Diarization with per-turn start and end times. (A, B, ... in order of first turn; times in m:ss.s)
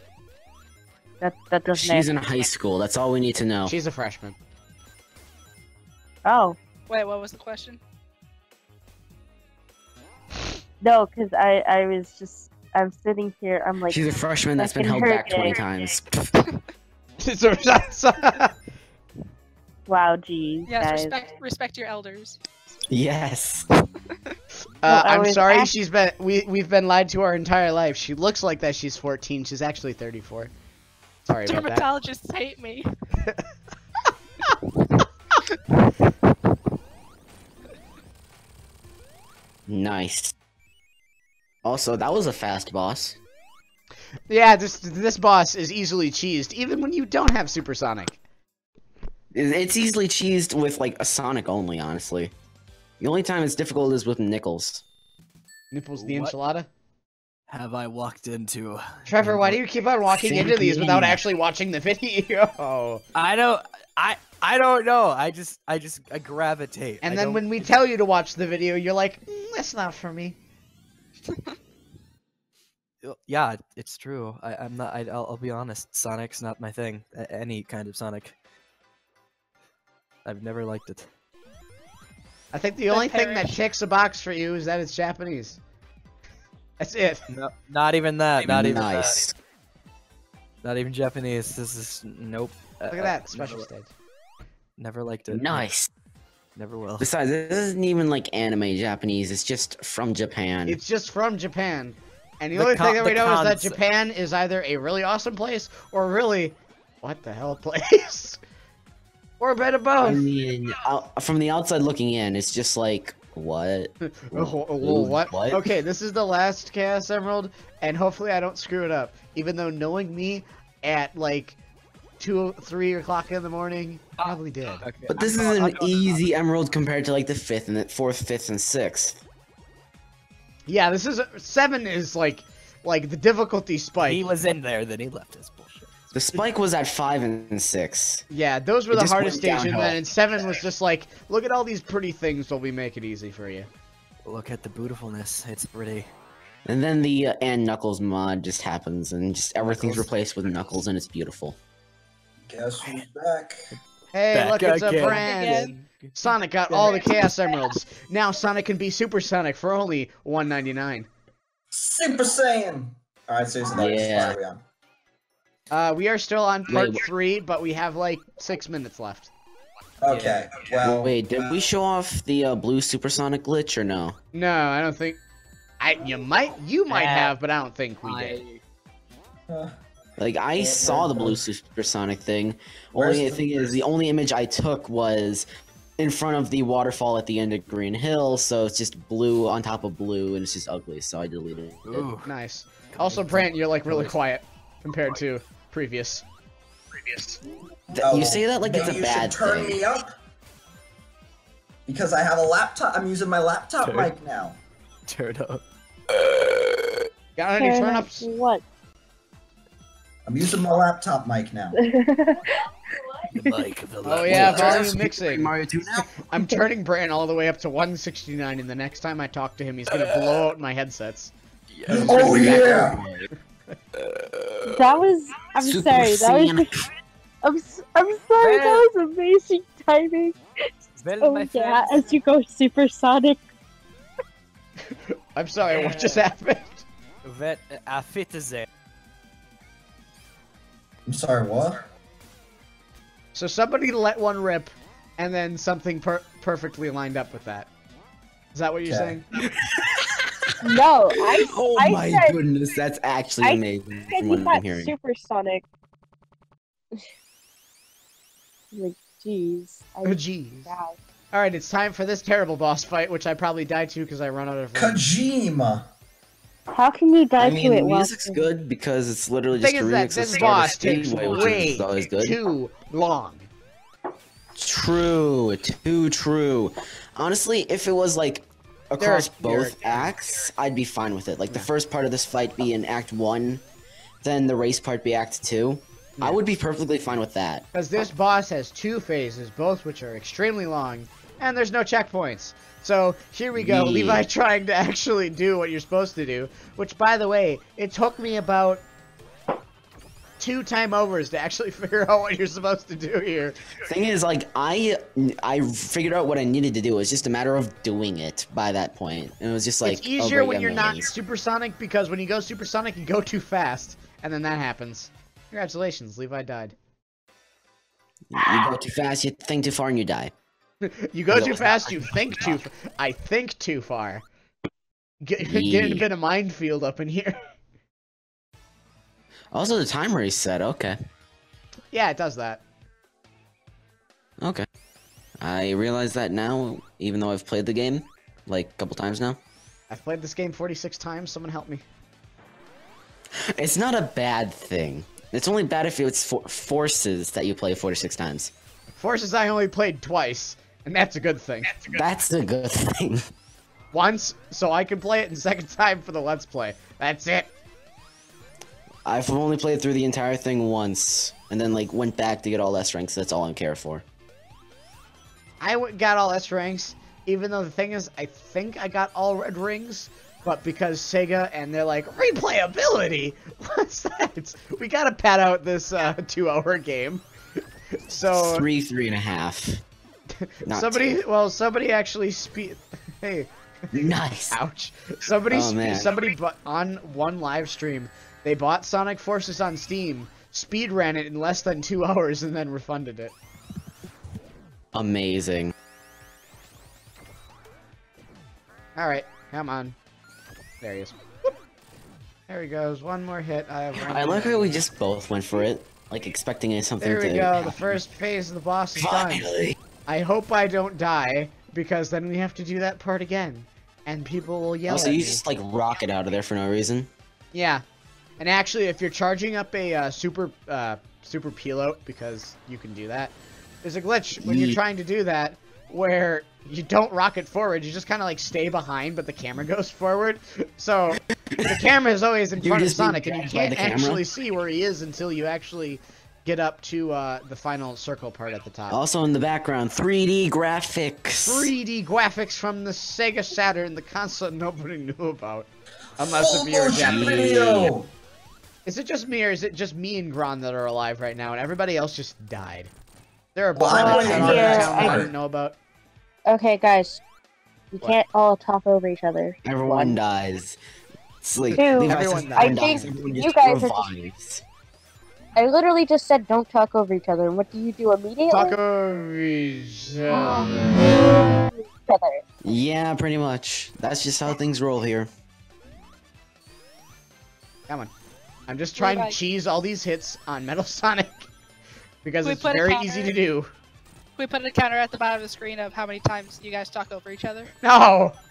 0:01.2-0:02.1 A
0:01.7-0:03.7 B
0:03.6-0:04.4 C
0:06.2-0:06.6 A
0:06.9-0:07.8 D
0:10.8-0:15.6 A
0:13.9-0:16.3 B
0:17.2-0:18.5 C
0:19.9-0:21.1 A
0:20.7-0:22.4 D
0:22.9-0:23.7 B
0:24.8-0:30.5 C
0:24.8-0:25.7 A
0:31.2-0:31.8 C
0:31.4-0:32.9 D
0:39.7-0:40.3 B
0:41.6-0:43.2 B
0:44.3-0:48.2 C
0:49.3-0:52.3 B
0:53.0-0:54.8 B
0:55.7-0:56.7 C
0:56.0-0:56.3 E
0:57.5-0:59.6 E
0:59.1-1:03.0 C
1:00.1-1:01.2 B
1:03.1-1:07.7 E
1:07.0-1:10.4 C
1:13.0-1:18.4 E
1:20.2-1:21.1 E
1:22.5-1:25.6 C
1:22.9-1:23.6 D
1:26.8-1:27.2 C
1:27.3-1:29.2 E
1:28.4-1:29.3 B
1:30.6-1:33.7 E
1:32.9-1:33.9 C
1:34.8-1:35.7 E
1:35.3-1:35.9 B
1:36.6-1:37.1 E
1:37.0-1:40.8 B
1:40.7-1:48.4 C
1:42.5-1:43.8 E
1:49.4-1:50.2 C
1:50.0-1:55.7 B
1:54.0-2:01.6 C
2:02.2-2:04.8 C
2:04.2-2:06.2 E
2:05.1-2:09.2 B
2:10.7-2:14.3 C
2:14.0-2:16.4 E
2:16.1-2:18.2 B
2:18.3-2:23.7 C
2:18.9-2:20.0 B
2:24.2-2:26.1 E
2:26.6-2:31.6 B
2:29.6-2:30.1 E
2:32.5-2:33.6 F
2:34.1-2:41.1 C
2:34.3-2:37.2 E
2:35.0-2:35.8 D
2:41.7-2:44.6 F
2:43.7-2:44.4 B
2:45.7-2:49.3 C
2:46.7-2:47.1 B
2:50.0-2:51.6 F
2:50.1-2:50.4 E
2:50.8-2:54.2 B
2:54.3-2:55.2 C
2:55.8-2:58.4 C
2:56.9-2:57.4 E
2:58.0-2:58.6 E
2:59.5-2:59.7 F
3:00.2-3:05.4 B
3:00.6-3:01.4 F
3:03.0-3:03.7 F
3:06.0-3:12.0 B
3:11.8-3:12.3 E
3:12.1-3:16.2 C
3:12.9-3:14.2 E
3:17.9-3:19.8 B
3:17.9-3:20.1 F
3:21.9-3:24.6 F
3:23.8-3:24.1 E
3:25.0-3:27.0 E
3:27.4-3:28.2 C
3:27.5-3:28.6 A
3:30.2-3:31.8 F
3:31.8-3:32.6 A
3:33.3-3:35.0 E
3:34.0-3:35.5 C
3:34.3-3:36.1 B
3:36.2-3:41.3 C
3:41.7-3:42.6 E
3:41.9-3:43.0 F
3:42.0-3:43.0 C
3:42.1-3:42.6 A
3:42.3-3:43.3 B
3:44.1-3:45.0 E
3:44.6-3:46.7 A
3:45.6-3:46.8 B
3:47.4-3:50.4 A
3:48.4-3:48.9 E
3:51.0-3:52.2 E
3:51.2-3:53.4 A
3:55.3-3:56.8 C
3:55.7-3:56.3 E
3:57.2-3:58.7 E
4:01.0-4:01.8 F
4:03.3-4:07.7 C
4:08.5-4:09.2 C
4:08.9-4:09.2 F
4:10.6-4:12.3 A
4:11.2-4:14.9 B
4:13.4-4:15.6 A
4:18.7-4:21.0 A
4:20.0-4:20.7 C
4:21.3-4:25.0 C
4:24.7-4:25.9 F
4:26.7-4:28.4 A
4:27.4-4:32.4 B
4:29.5-4:33.5 C
4:34.6-4:43.6 B
4:39.0-4:40.1 C
4:44.2-4:47.6 B
4:46.2-4:46.4 C
4:47.7-4:58.8 C
4:53.5-4:54.2 B
5:00.4-5:03.6 C
5:03.8-5:11.1 B
5:09.8-5:16.7 C
5:18.3-5:20.3 B
5:20.8-5:24.2 C
5:21.3-5:22.6 B
5:25.2-5:27.4 C
5:25.4-5:26.1 B
5:29.5-5:31.0 B
5:31.9-5:32.6 C
5:34.4-5:34.6 B
5:35.4-5:39.4 B
5:39.9-5:41.8 C
5:43.4-5:48.5 B
5:49.0-5:51.9 C
5:51.9-5:53.3 B
5:53.9-5:57.5 C
5:59.0-6:04.0 B
6:05.6-6:17.2 C
6:18.1-6:18.6 C
6:18.3-6:19.8 B
6:20.4-6:23.5 C
6:20.6-6:21.2 B
6:23.9-6:24.6 B
6:24.5-6:33.3 C
6:25.5-6:26.2 B
6:34.9-6:35.7 B
6:39.0-6:40.0 C
6:40.8-6:41.2 C
6:42.5-6:44.8 C
6:44.0-6:48.0 B
6:47.0-6:49.5 C
6:49.0-6:49.8 B
6:50.1-6:55.4 C
6:54.9-6:57.1 B
6:57.5-6:57.8 C
6:58.4-7:19.0 C
7:04.4-7:04.8 B
7:11.5-7:11.8 B
7:12.6-7:14.2 B
7:18.9-7:21.7 B
7:21.4-7:25.7 C
7:26.2-7:27.5 C
7:26.2-7:28.1 F
7:26.9-7:27.9 B
7:28.8-7:32.9 C
7:33.5-7:35.8 C
7:33.7-7:35.3 F
7:33.9-7:35.2 A
7:36.5-7:37.2 A
7:37.9-7:40.2 A
7:39.6-7:40.8 B
7:41.4-7:44.6 B
7:41.6-7:43.3 C
7:41.8-7:44.1 A
7:45.6-7:48.8 A
7:48.5-7:50.9 C
7:52.1-7:52.4 A
7:52.6-7:55.3 B
7:58.7-8:01.5 C
7:59.0-7:59.4 D
8:02.2-8:03.7 C
8:02.4-8:03.4 D
8:04.4-8:07.7 D
8:07.8-8:08.4 C